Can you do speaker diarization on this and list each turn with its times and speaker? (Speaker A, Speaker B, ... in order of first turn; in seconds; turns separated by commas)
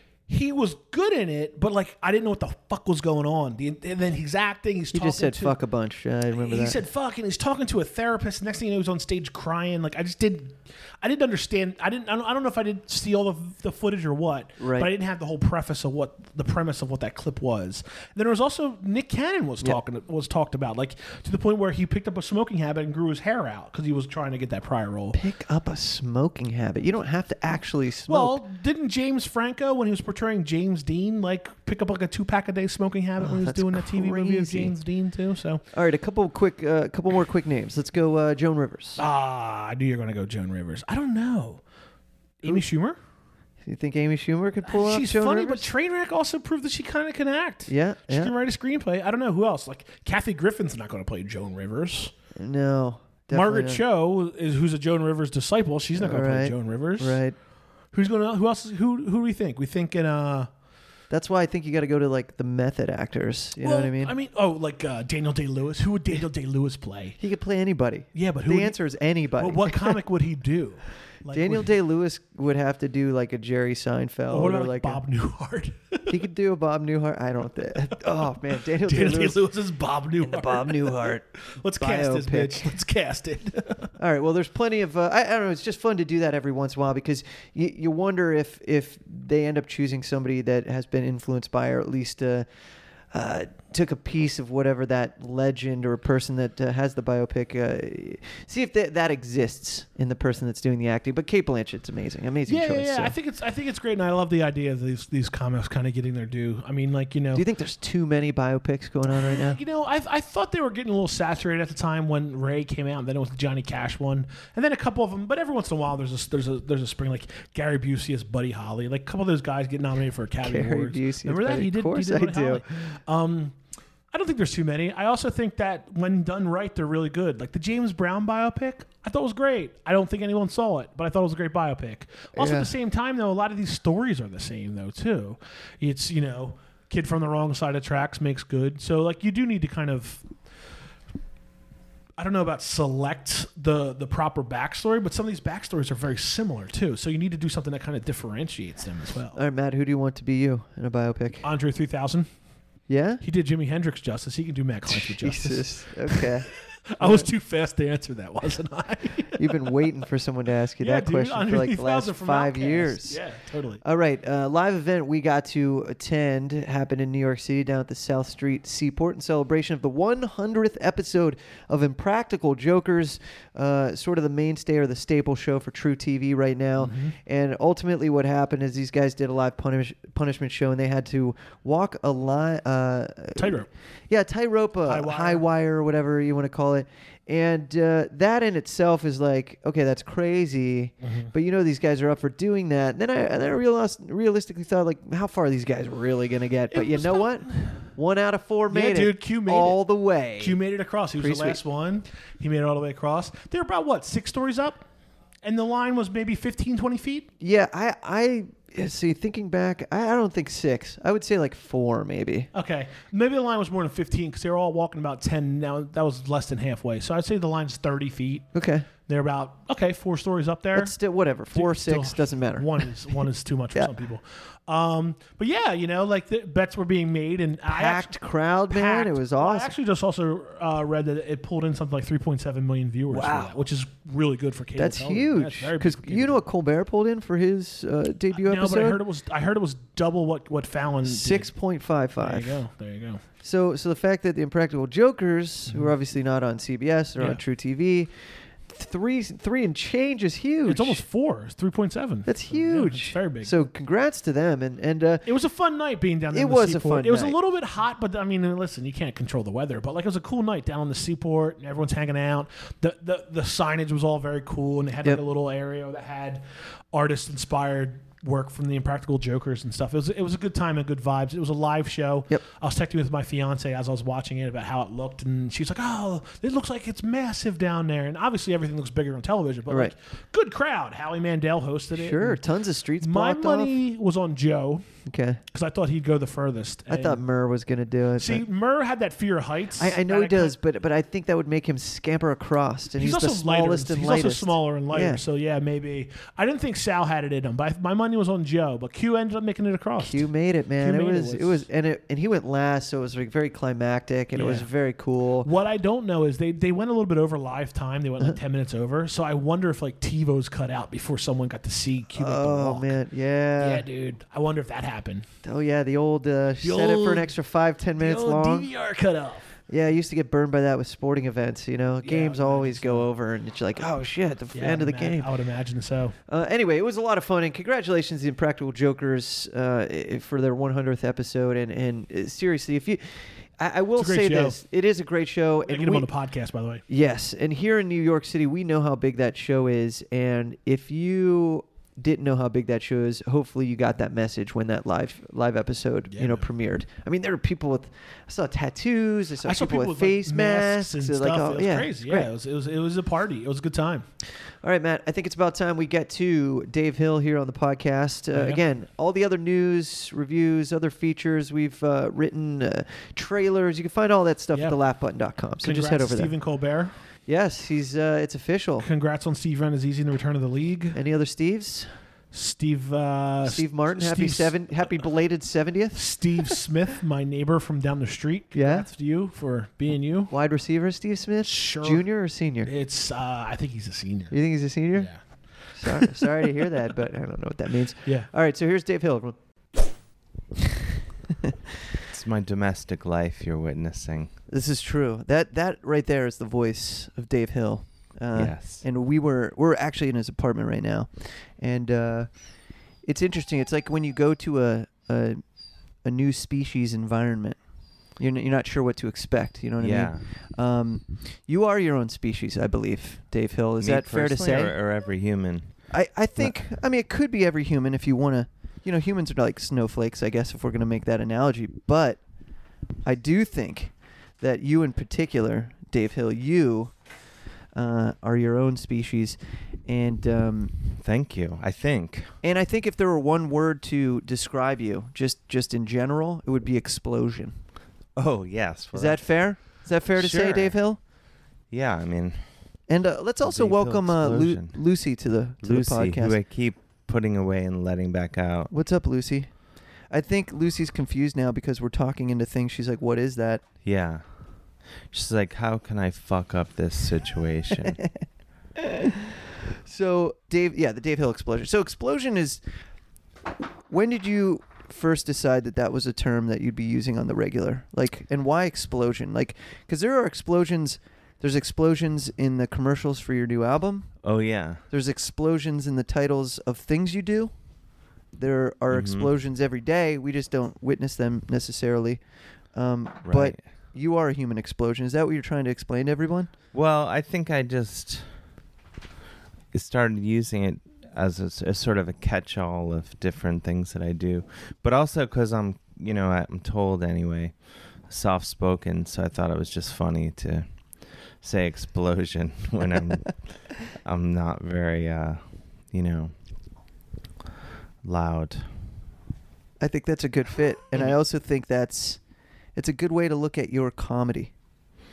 Speaker A: 0.3-5.6, Speaker B: 4.9-6.8, Speaker A: 6.3-25.2, Speaker B: 14.6-14.9, Speaker B: 25.1-28.4, Speaker A: 28.1-35.6, Speaker B: 33.2-34.7, Speaker B: 35.7-39.0, Speaker A: 39.0-41.6, Speaker A: 42.4-43.0, Speaker B: 43.6-45.7, Speaker A: 44.6-52.1, Speaker B: 47.7-48.3, Speaker B: 52.4-53.8, Speaker A: 53.3-57.2, Speaker B: 56.0-57.3, Speaker A: 57.9-60.5, Speaker B: 61.1-64.1, Speaker A: 63.6-67.2, Speaker B: 67.2-70.0, Speaker A: 68.1-68.8, Speaker A: 69.4-71.7, Speaker B: 71.3-75.0, Speaker A: 74.3-76.2, Speaker B: 76.1-79.4, Speaker A: 77.9-83.9, Speaker B: 80.2-81.2, Speaker B: 81.8-82.7, Speaker B: 84.0-92.5, Speaker B: 93.1-103.1, Speaker A: 102.5-107.4, Speaker B: 107.3-109.6, Speaker A: 109.1-123.5, Speaker B: 120.4-122.6, Speaker A: 124.1-140.2, Speaker B: 132.3-132.7, Speaker A: 142.2-149.4, Speaker B: 149.3-151.4, Speaker A: 151.4-152.3, Speaker B: 152.9-153.2, Speaker A: 153.2-159.7, Speaker B: 154.9-156.5, Speaker B: 157.0-157.3, Speaker B: 159.3-163.2, Speaker A: 160.8-163.8, Speaker B: 163.8-200.6, Speaker A: 176.8-177.2, Speaker A: 183.3-183.7, Speaker A: 184.8-185.4, Speaker A: 191.0-191.3, Speaker A: 196.7-197.8, Speaker A: 198.7-199.8, Speaker A: 200.4-204.8, Speaker B: 201.2-201.6, Speaker A: 205.4-207.3, Speaker B: 207.4-212.5, Speaker A: 212.5-218.5, Speaker B: 218.5-218.9, Speaker A: 219.0-220.9, Speaker B: 220.7-222.7, Speaker A: 221.5-228.2, Speaker B: 227.7-229.7, Speaker A: 228.7-236.4, Speaker B: 233.1-233.6, Speaker B: 234.8-239.0, Speaker A: 238.3-241.5, Speaker B: 241.1-242.6, Speaker A: 242.2-243.2, Speaker B: 243.4-248.1, Speaker B: 248.7-251.0, Speaker A: 250.7-253.5, Speaker B: 252.2-255.3, Speaker A: 255.2-282.4, Speaker B: 256.3-257.4, Speaker B: 279.7-279.9, Speaker B: 281.9-283.7, Speaker A: 283.0-284.8, Speaker B: 285.1-285.4, Speaker A: 285.5-287.2, Speaker B: 286.9-288.4, Speaker A: 288.2-290.6, Speaker B: 289.8-295.2, Speaker A: 292.9-300.3, Speaker B: 300.0-305.5, Speaker A: 300.8-301.6, Speaker A: 304.3-304.7, Speaker A: 305.4-313.0, Speaker B: 312.1-313.8, Speaker A: 313.6-315.2, Speaker B: 315.4-318.7, Speaker A: 316.6-317.3, Speaker A: 318.0-319.5, Speaker B: 319.7-325.3, Speaker A: 322.0-323.1, Speaker A: 324.5-326.1, Speaker B: 326.3-336.1, Speaker A: 334.0-334.6, Speaker A: 335.7-336.8, Speaker B: 336.9-352.3, Speaker A: 346.1-346.5, Speaker A: 349.4-354.1, Speaker B: 354.6-366.3, Speaker A: 358.3-358.6, Speaker A: 364.5-364.8, Speaker A: 365.6-366.9, Speaker B: 367.3-368.9, Speaker A: 368.8-371.0, Speaker B: 370.9-371.9, Speaker A: 372.3-374.6, Speaker B: 373.4-376.5, Speaker A: 375.9-380.3, Speaker B: 378.5-378.9, Speaker B: 380.3-382.7, Speaker A: 381.4-382.1, Speaker A: 382.6-384.3, Speaker B: 384.3-385.1, Speaker A: 384.9-386.6, Speaker B: 385.7-389.4, Speaker C: 392.1-394.3, Speaker B: 394.5-402.3, Speaker C: 398.3-398.8, Speaker B: 403.0-405.4, Speaker B: 406.0-407.6, Speaker B: 408.2-414.7, Speaker C: 409.8-410.2, Speaker C: 413.8-415.7, Speaker B: 415.9-422.2, Speaker B: 423.0-426.9, Speaker B: 427.7-430.7, Speaker C: 430.9-432.3, Speaker B: 432.4-437.5, Speaker C: 438.1-439.2, Speaker B: 438.9-441.0, Speaker C: 440.1-440.8, Speaker C: 441.7-442.4, Speaker B: 442.9-446.4, Speaker C: 443.4-444.8, Speaker C: 445.6-448.7, Speaker B: 448.7-449.5, Speaker B: 450.1-453.6, Speaker C: 453.8-454.2, Speaker C: 455.1-458.0, Speaker B: 458.9-459.2, Speaker B: 459.8-462.6, Speaker B: 463.9-474.1, Speaker C: 474.2-474.8, Speaker B: 474.9-477.5, Speaker B: 478.4-482.2, Speaker C: 478.9-479.3, Speaker B: 482.7-486.5, Speaker C: 483.2-483.6, Speaker C: 486.7-488.3, Speaker C: 489.7-497.5, Speaker C: 498.1-500.7, Speaker C: 501.4-506.3, Speaker C: 508.0-508.7, Speaker B: 509.8-512.2, Speaker B: 512.8-514.5